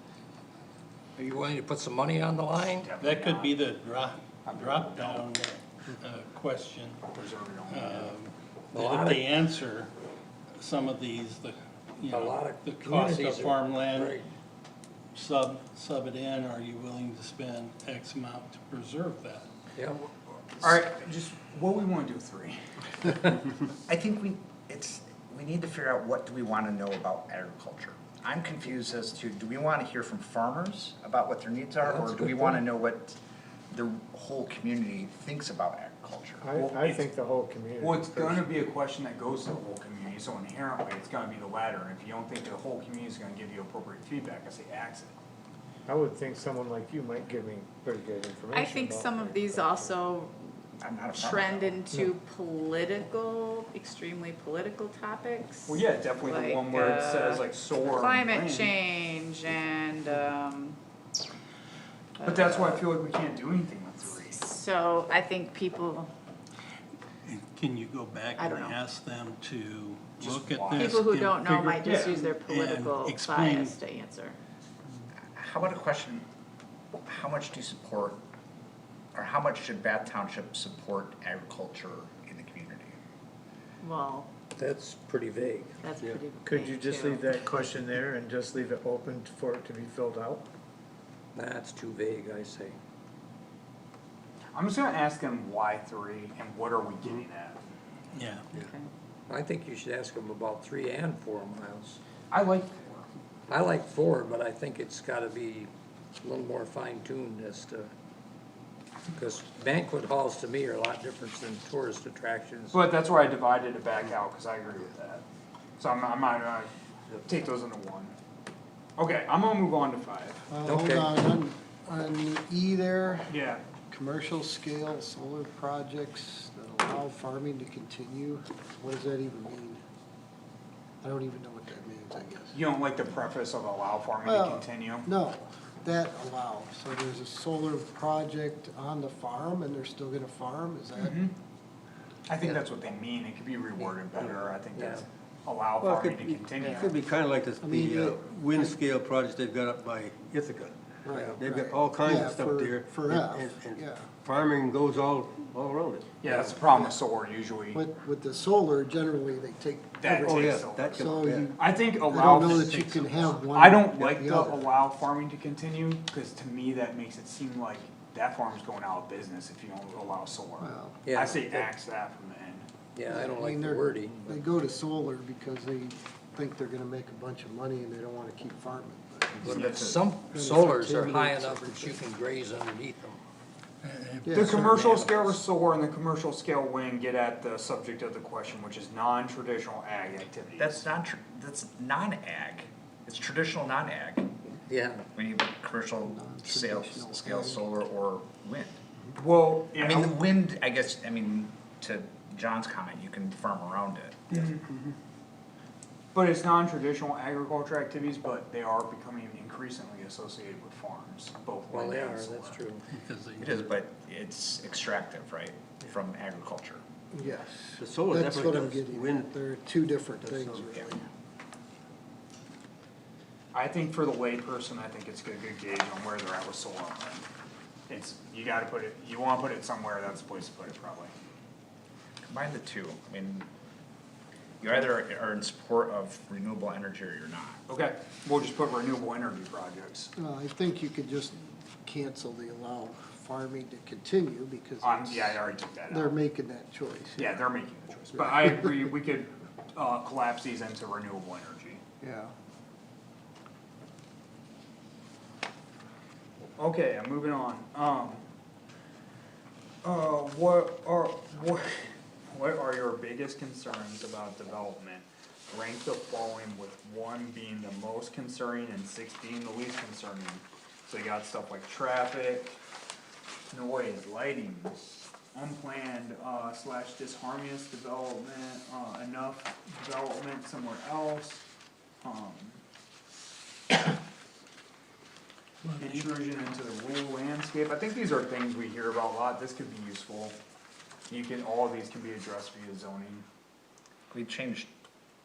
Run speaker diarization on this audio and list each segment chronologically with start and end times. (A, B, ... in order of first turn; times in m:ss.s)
0:01.2-0:02.9 A
0:02.8-0:03.5 B
0:03.0-0:07.0 C
0:04.4-0:05.3 B
0:07.1-0:08.1 B
0:07.7-0:09.9 C
0:08.7-0:09.3 A
0:10.6-0:14.2 C
0:12.1-0:14.3 A
0:15.1-0:19.5 C
0:19.7-0:20.0 A
0:20.6-0:23.2 B
0:23.9-0:33.2 D
0:33.7-0:36.4 D
0:36.4-0:38.6 E
0:36.5-0:37.0 B
0:37.8-0:45.1 B
0:45.9-0:50.0 E
0:48.5-1:00.8 F
0:50.8-0:51.8 D
0:55.7-0:58.8 B
1:02.2-1:02.9 F
1:02.2-1:04.4 B
1:04.3-1:06.1 F
1:07.2-1:11.7 C
1:08.4-1:08.8 F
1:10.2-1:11.1 B
1:10.8-1:14.4 F
1:11.8-1:12.4 B
1:12.4-1:13.7 C
1:15.3-1:16.2 D
1:17.0-1:18.2 D
1:19.1-1:22.9 D
1:23.8-1:24.3 F
1:24.6-1:25.7 A
1:25.8-1:27.3 F
1:26.4-1:30.5 E
1:31.3-1:32.7 A
1:34.5-1:37.6 B
1:38.1-1:38.5 C
1:38.6-1:38.9 B
1:39.3-1:42.0 A
1:42.3-1:43.1 B
1:43.5-1:45.7 A
1:46.2-1:47.9 A
1:49.1-1:52.8 A
1:52.7-1:55.2 B
1:55.8-1:58.1 B
1:59.0-2:00.4 B
2:00.5-2:09.8 G
2:00.6-2:01.2 A
2:03.3-2:03.6 B
2:11.0-2:12.5 G
2:12.5-2:15.1 B
2:14.2-2:21.2 G
2:21.0-2:21.3 B
2:22.3-2:26.9 B
2:23.8-2:25.0 A
2:25.8-2:30.8 H
2:26.6-2:27.0 G
2:27.6-2:28.7 G
2:31.0-2:34.1 G
2:31.1-2:31.4 A
2:31.4-2:36.6 H
2:36.2-2:37.8 B
2:36.6-2:37.0 G
2:37.7-2:41.6 G
2:40.0-2:52.6 B
2:40.2-2:41.6 H
2:42.1-2:44.7 G
2:42.3-2:43.2 H
2:50.6-2:51.0 G
2:51.0-2:51.7 A
2:52.9-2:54.4 A
2:53.1-2:59.6 G
2:59.4-3:03.2 A
2:59.4-2:59.8 B
2:59.5-3:00.0 D
3:00.3-3:02.0 G
3:03.8-3:04.5 C
3:04.2-3:05.4 G
3:04.3-3:10.8 B
3:10.6-3:14.3 D
3:14.7-3:15.0 A
3:15.1-3:18.8 D
3:16.0-3:17.6 G
3:19.2-3:20.1 B
3:19.8-3:24.5 D
3:24.3-3:24.6 B
3:26.1-3:32.6 B
3:31.7-3:32.8 A
3:32.9-3:33.5 C
3:33.4-3:36.8 D
3:37.1-3:41.0 G
3:37.8-3:39.3 H
3:40.2-3:40.8 H
3:43.5-3:47.2 B
3:47.9-3:51.1 B
3:52.3-3:53.5 D
3:54.6-3:57.6 D
3:57.7-4:00.1 B
4:00.2-4:07.4 G
4:04.8-4:06.2 B
4:07.2-4:11.8 B
4:08.1-4:08.9 G
4:12.0-4:12.3 G
4:16.6-4:18.2 B
4:19.8-4:32.6 B
4:33.5-4:41.4 B
4:42.0-4:42.6 B
4:45.6-4:46.0 C
4:45.8-4:50.4 B
4:51.1-4:53.2 B
4:54.1-4:54.7 D